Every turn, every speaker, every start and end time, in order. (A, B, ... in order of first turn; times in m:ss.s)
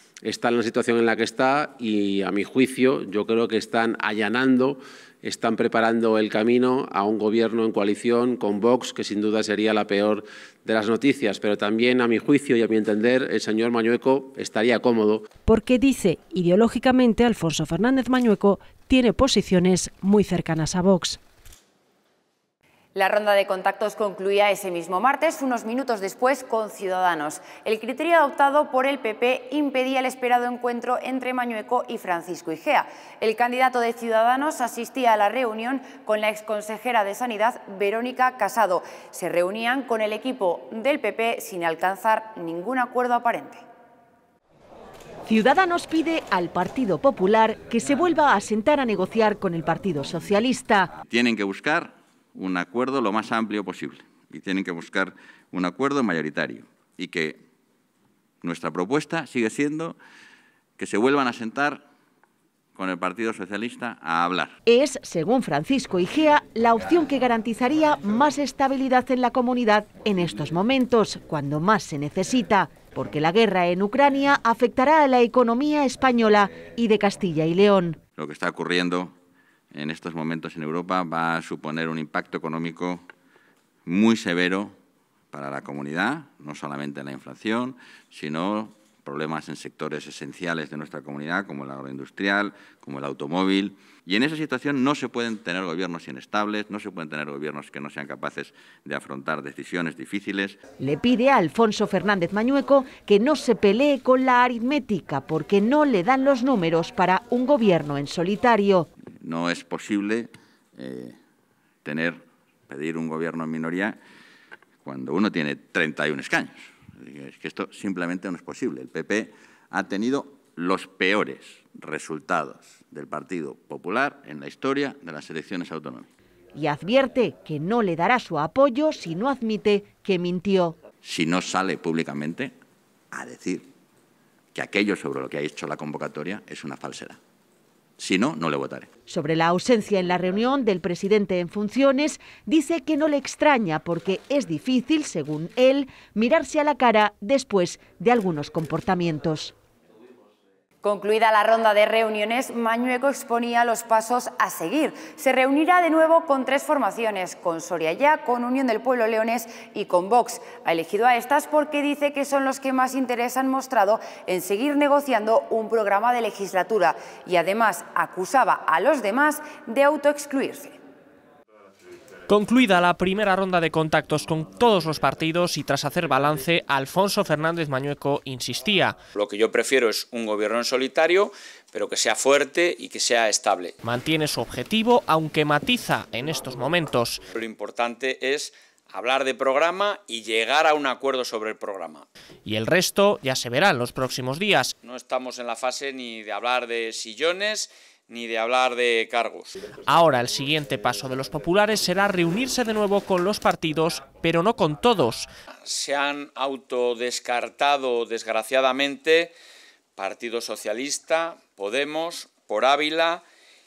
0:00.2-0:15.3 A
0:15.4-0:21.2 B
0:23.0-0:43.6 C
0:45.3-0:50.9 D
0:51.1-0:57.4 E
0:58.4-1:00.0 E
1:00.8-1:01.8 E
1:02.8-1:04.6 E
1:04.7-1:18.0 D
1:18.2-1:19.1 E
1:19.7-1:23.1 E
1:23.9-1:24.8 E
1:25.3-1:40.6 E
1:40.8-1:48.9 D
1:49.2-1:51.2 E
1:51.8-1:54.0 E
1:54.8-2:06.1 E
2:06.5-2:10.8 D
2:11.0-2:12.5 E
2:13.1-2:13.7 E
2:14.5-2:17.2 E
2:18.0-2:18.9 E
2:19.1-2:29.5 D
2:30.8-2:50.8 C
2:52.3-2:59.0 F
2:59.1-3:03.8 G
3:03.8-3:07.2 F
3:07.3-3:12.1 G
3:12.5-3:14.8 F
3:14.8-3:19.6 G
3:19.9-3:25.3 F
3:25.6-3:29.4 G
3:30.0-3:33.2 G